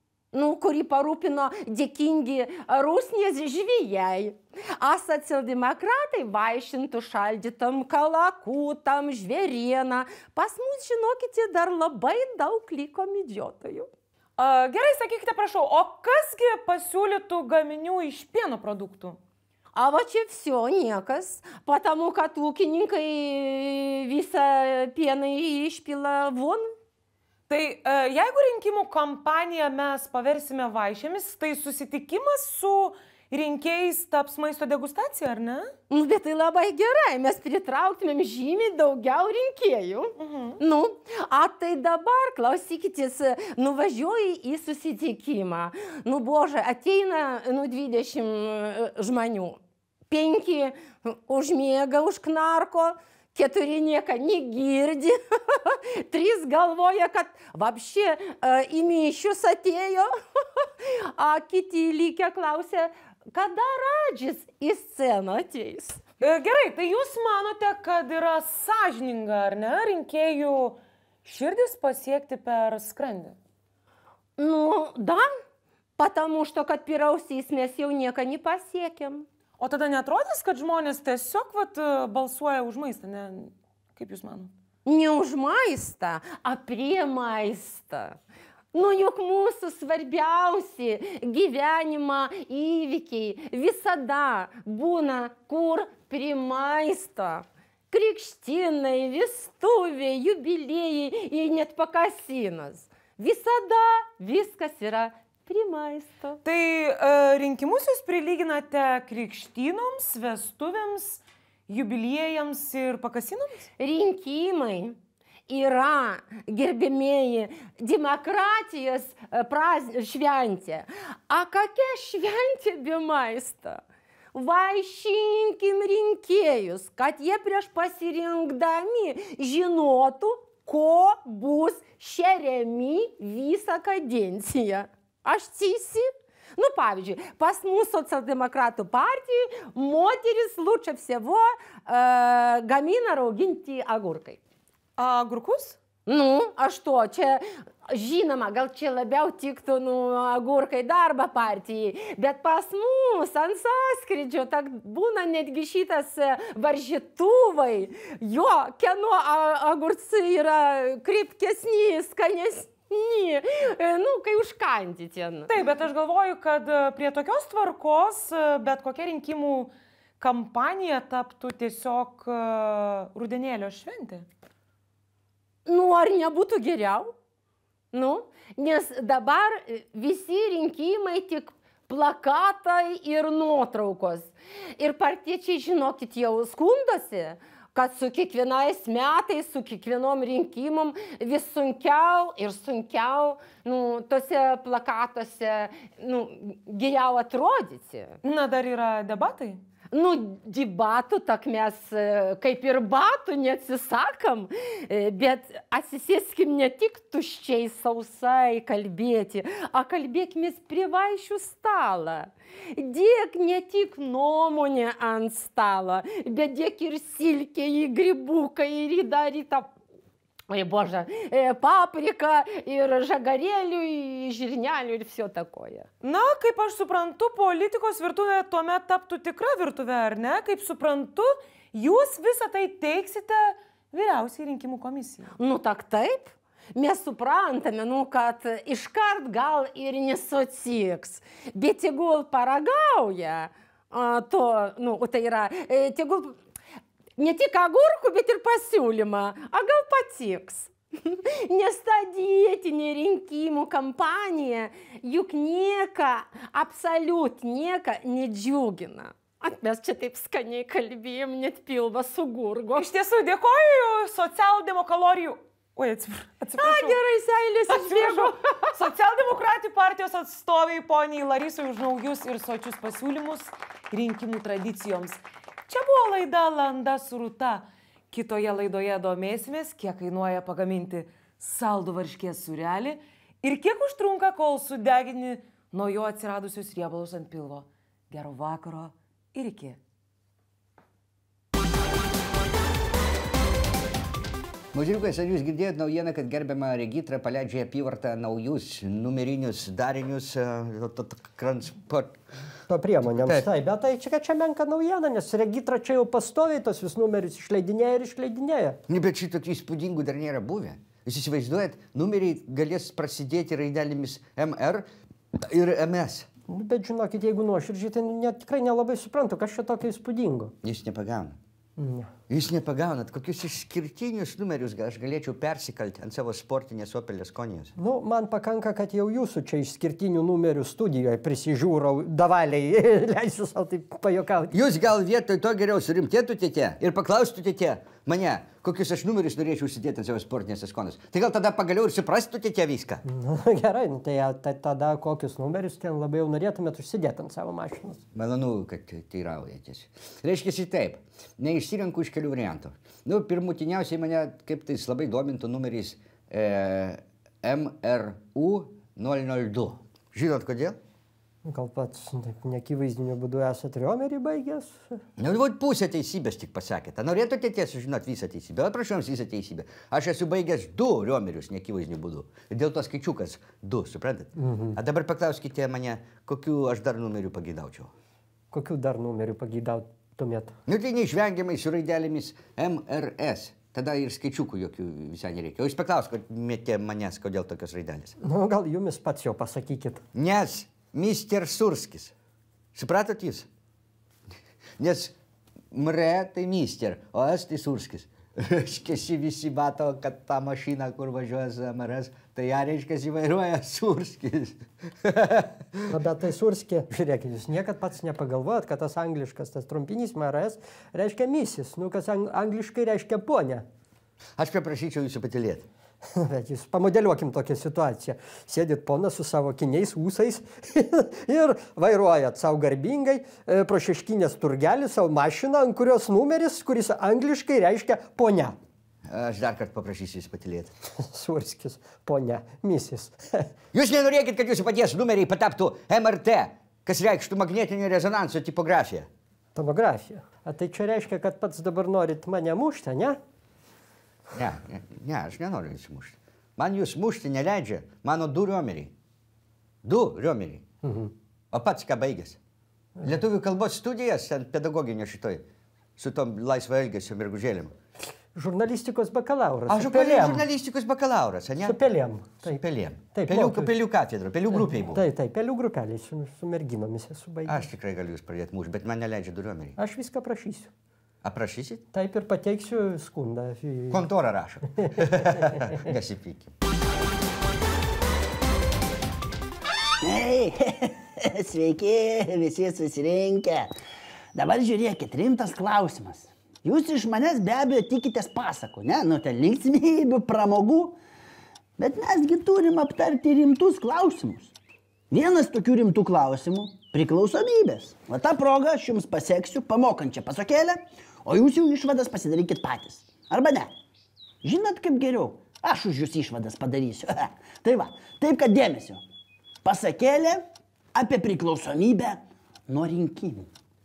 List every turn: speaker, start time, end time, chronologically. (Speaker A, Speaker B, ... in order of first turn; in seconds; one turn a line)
Speaker A: 0.3-13.9
Speaker B: 14.4-19.2
Speaker A: 19.7-26.8
Speaker B: 27.5-35.7
Speaker A: 35.9-49.6
Speaker B: 40.2-40.6
Speaker A: 50.1-66.0
Speaker B: 66.2-73.4
Speaker A: 74.4-75.2
Speaker A: 76.0-79.3
Speaker B: 79.6-84.5
Speaker A: 84.8-88.2
Speaker A: 88.7-106.4
Speaker B: 106.5-113.7
Speaker A: 113.8-123.8
Speaker A: 124.3-144.4
Speaker B: 145.0-145.8
Speaker A: 146.1-165.5
Speaker B: 165.5-174.3
Speaker A: 175.7-177.1
Speaker A: 177.9-198.2
Speaker B: 198.2-199.6
Speaker A: 199.9-219.7
Speaker A: 220.5-225.9
Speaker B: 226.0-235.3
Speaker A: 235.4-246.4
Speaker A: 247.2-262.9
Speaker B: 262.8-267.0
Speaker A: 266.6-268.7
Speaker B: 267.7-289.8
Speaker C: 294.7-302.2
Speaker D: 302.7-308.8
Speaker C: 308.9-316.3
Speaker D: 316.5-320.5
Speaker C: 320.6-321.4
Speaker D: 321.8-322.1
Speaker C: 322.3-327.7
Speaker D: 327.8-334.6
Speaker C: 334.5-343.0
Speaker D: 343.1-348.0
Speaker C: 348.1-360.8
Speaker D: 361.4-365.0
Speaker C: 365.2-377.9
Speaker D: 374.4-374.8
Speaker D: 378.5-380.6
Speaker C: 380.7-388.2
Speaker D: 388.2-390.0
Speaker C: 390.1-392.1
Speaker C: 392.8-393.5
Speaker C: 394.8-395.1
Speaker C: 395.7-405.9
Speaker D: 405.9-413.6
Speaker C: 414.4-415.7
Speaker D: 416.2-428.6
Speaker C: 429.1-430.7
Speaker D: 431.0-433.5
Speaker C: 433.7-439.1
Speaker D: 439.6-443.2
Speaker C: 444.3-448.9
Speaker C: 449.8-450.7
Speaker D: 450.8-451.1
Speaker C: 451.5-452.4
Speaker C: 453.0-455.4
Speaker C: 456.0-457.8
Speaker D: 458.4-460.4
Speaker C: 459.7-461.8
Speaker D: 461.6-462.6
Speaker C: 462.4-465.0
Speaker D: 463.1-463.7
Speaker D: 464.9-467.6
Speaker C: 467.5-469.8
Speaker D: 469.8-470.7
Speaker C: 471.2-471.8
Speaker D: 471.9-474.0
Speaker C: 473.9-476.5
Speaker E: 480.0-483.7
Speaker E: 484.3-491.0
Speaker E: 491.8-494.5
Speaker E: 495.1-503.7
Speaker E: 504.4-509.0
Speaker E: 509.6-513.5